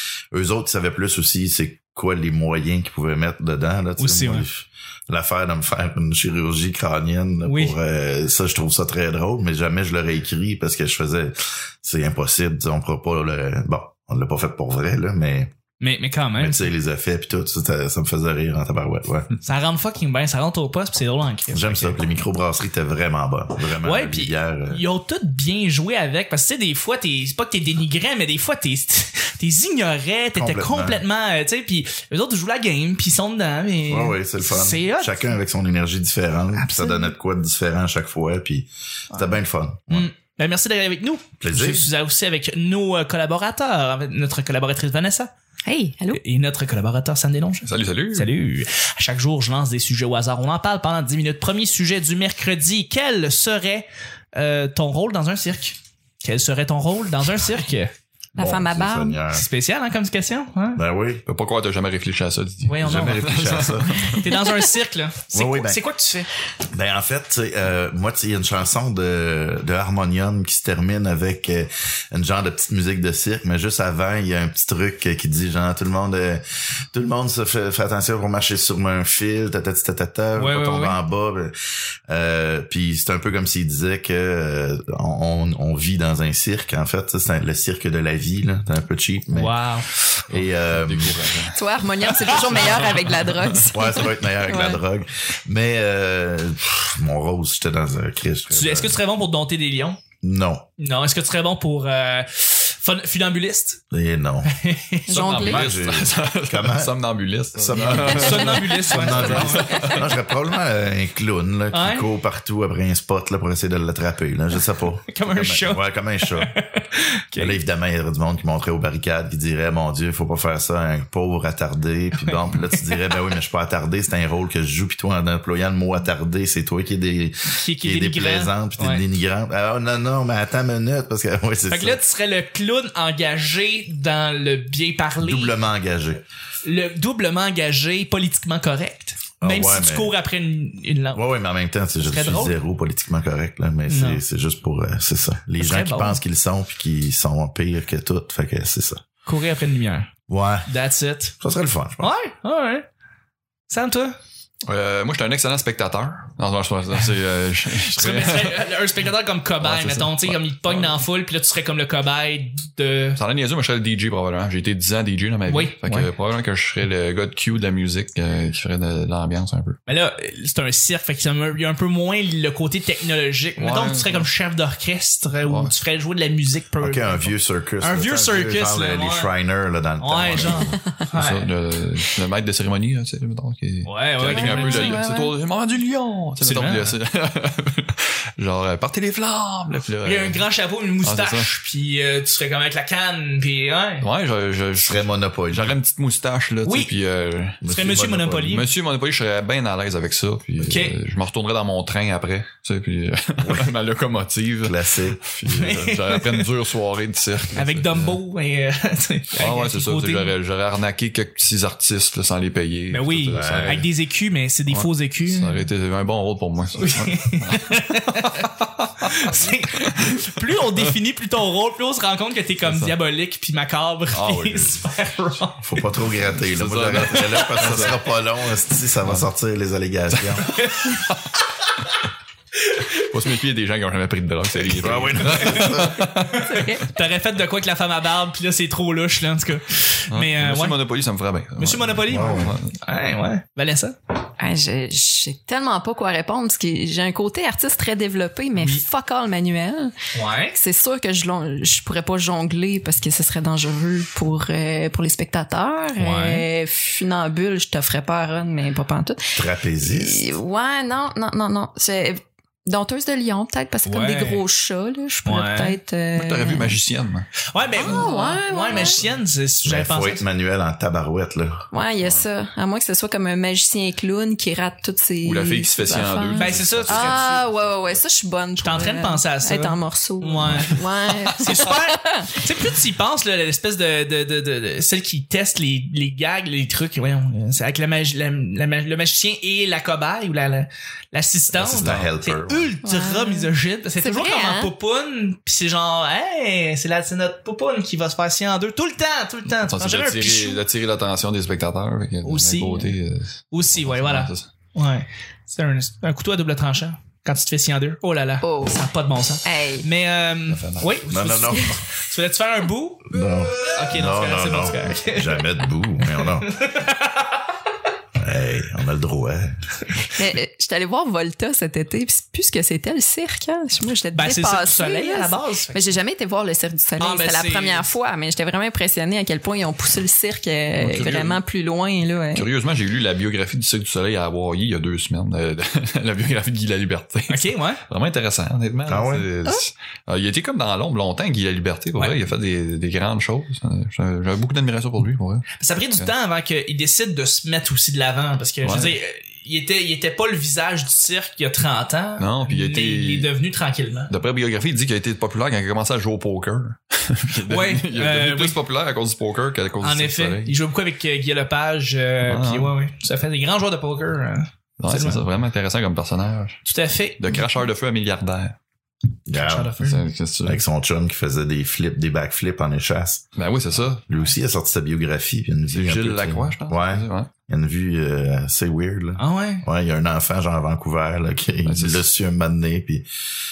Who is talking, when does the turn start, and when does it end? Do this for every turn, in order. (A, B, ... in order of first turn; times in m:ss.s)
0:00.3-0:15.5 A
0:04.0-0:04.5 B
0:07.4-0:07.8 B
0:15.8-0:16.7 B
0:16.4-0:19.3 A
0:19.4-0:22.0 B
0:21.5-0:24.8 A
0:23.8-0:35.4 B
0:30.4-0:31.0 A
0:33.9-0:40.1 A
0:36.6-0:37.1 C
0:39.9-0:45.3 B
0:41.4-0:41.9 A
0:45.7-0:46.2 C
0:46.1-0:57.9 B
0:47.7-0:48.3 D
0:58.4-0:59.2 C
0:58.4-0:59.5 A
0:59.3-1:00.8 B
1:00.8-1:01.2 A
1:01.3-1:04.3 D
1:02.6-1:03.3 B
1:02.8-1:04.1 A
1:04.0-1:06.3 B
1:05.3-1:05.8 A
1:06.7-1:21.5 A
1:20.4-1:21.0 B
1:22.1-1:29.5 A
1:29.3-1:29.9 B
1:30.3-1:31.2 A
1:30.3-1:31.6 D
1:31.6-1:34.8 C
1:32.2-1:33.2 B
1:32.4-1:33.2 D
1:33.7-1:39.0 A
1:38.5-1:40.0 B
1:40.2-1:40.6 A
1:40.8-1:43.8 B
1:43.9-1:44.5 A
1:44.5-1:45.0 B
1:45.1-1:45.7 C
1:45.1-1:50.0 D
1:45.3-1:47.0 A
1:47.5-1:56.5 A
1:47.9-1:49.9 B
1:49.4-1:50.0 C
1:51.7-1:52.1 B
1:55.1-1:57.6 B
1:57.4-2:12.0 A
2:02.2-2:03.2 B
2:07.5-2:09.0 B
2:11.7-2:15.6 B
2:15.2-2:16.2 A
2:16.6-2:21.3 B
2:19.4-2:20.2 A
2:21.1-2:29.0 A
2:22.0-2:22.6 B
2:23.9-2:24.2 B
2:25.6-2:26.2 B
2:29.3-2:30.1 B
2:30.3-2:30.7 A
2:30.7-2:31.3 B
2:31.4-2:32.1 A
2:32.0-2:32.9 B
2:33.7-2:34.2 B
2:34.7-2:38.6 D
2:37.8-2:43.2 B
2:39.6-2:41.0 D
2:43.2-2:49.8 D
2:45.5-2:46.1 B
2:49.9-2:59.4 B
2:53.6-2:54.3 D
2:55.4-2:55.7 D
2:56.8-3:00.8 A
3:00.0-3:01.5 B
3:00.3-3:00.6 D
3:01.1-3:10.4 D
3:03.8-3:05.0 B
3:04.3-3:05.3 C
3:06.4-3:07.0 B
3:10.0-3:14.1 B
3:11.0-3:11.5 D
3:14.0-3:17.6 D
3:14.8-3:15.8 A
3:16.6-3:16.9 B
3:17.6-3:18.5 A
3:17.6-3:18.7 B
3:18.4-3:28.2 D
3:20.6-3:21.0 B
3:23.4-3:23.7 A
3:24.6-3:25.3 A
3:25.5-3:26.5 B
3:27.5-3:30.4 B
3:29.4-3:33.9 D
3:32.9-3:35.6 B
3:33.3-3:33.8 A
3:34.7-3:40.1 D
3:36.8-3:45.6 B
3:42.6-3:43.0 D
3:44.1-3:44.8 D
3:45.6-3:50.5 A
3:46.5-3:48.1 D
3:47.5-3:47.7 B
3:50.1-3:51.2 D
3:50.5-3:51.0 B
3:53.0-3:56.5 D
3:54.8-3:56.0 A
3:55.6-3:55.8 B
3:56.4-3:56.8 C
3:56.9-4:00.8 B
4:00.1-4:02.7 D
4:01.6-4:04.0 B
4:02.1-4:02.6 A
4:04.4-4:09.9 C
4:08.6-4:08.8 B
4:10.1-4:10.6 B
4:10.5-4:19.3 C
4:16.0-4:16.5 B
4:19.4-4:20.3 A
4:19.8-4:26.8 C
4:23.8-4:24.5 B
4:25.2-4:25.8 B
4:26.1-4:28.1 D
4:27.5-4:30.2 B
4:27.8-4:29.0 C
4:29.6-4:31.7 A
4:31.7-4:42.4 C
4:35.2-4:38.0 D
4:36.3-4:37.4 B
4:38.6-5:00.6 B
4:40.4-4:40.7 D
4:51.5-4:52.7 A
4:52.8-4:54.7 C
4:59.6-5:04.5 D
5:02.2-5:03.0 B
5:03.5-5:17.4 B
5:08.4-5:08.9 C
5:09.4-5:09.9 C
5:10.5-5:11.0 D
5:11.1-5:11.8 A
5:11.5-5:11.8 C
5:13.1-5:16.6 A
5:18.2-5:19.5 A
5:20.1-5:32.5 C
5:24.1-5:26.0 B
5:27.0-5:27.9 B
5:30.8-5:31.4 D
5:32.4-5:46.1 D
5:37.3-5:37.8 B
5:38.9-5:39.3 A
5:45.6-5:54.1 B
5:48.6-5:49.0 D
5:52.2-5:53.3 D
5:54.1-6:00.5 D
5:57.5-5:58.6 B
5:59.8-6:05.2 B
6:02.2-6:02.8 D
6:04.8-6:06.6 D
6:06.6-6:07.3 B
6:07.2-6:08.6 D
6:09.3-6:09.8 A
6:09.3-6:10.0 B
6:09.8-6:10.6 D
6:10.4-6:13.4 A
6:13.4-6:14.1 D
6:13.9-6:23.1 A
6:15.7-6:17.3 D
6:19.2-6:19.6 B
6:21.7-6:22.1 D